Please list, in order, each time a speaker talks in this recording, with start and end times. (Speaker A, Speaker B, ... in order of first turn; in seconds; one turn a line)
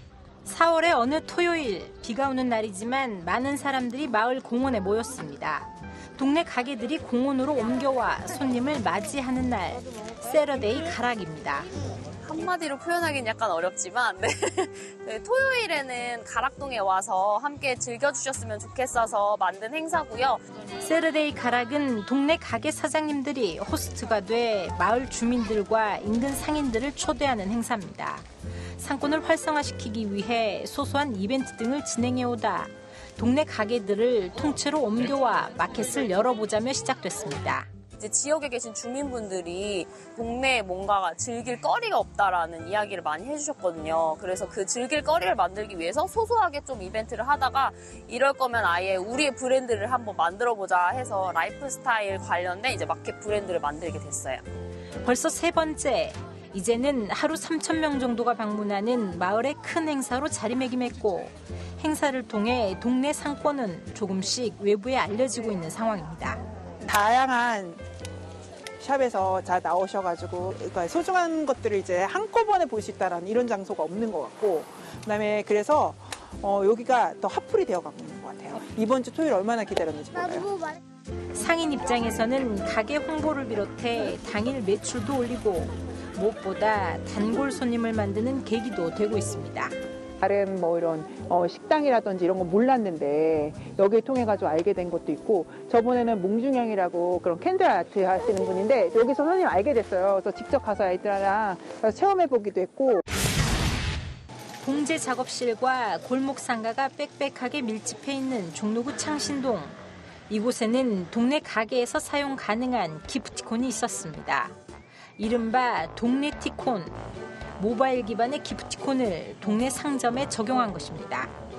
Speaker A: 0.5-11.7
Speaker B: 12.2-20.4
Speaker A: 20.8-28.2
Speaker A: 28.8-37.7
Speaker B: 38.0-54.4
Speaker A: 55.0-66.4
Speaker C: 66.8-67.8
Speaker C: 68.8-80.5
Speaker A: 81.3-89.7
Speaker C: 90.2-103.0
Speaker A: 104.6-109.8
Speaker A: 110.3-114.5
Speaker A: 115.2-117.0
Speaker A: 117.6-121.3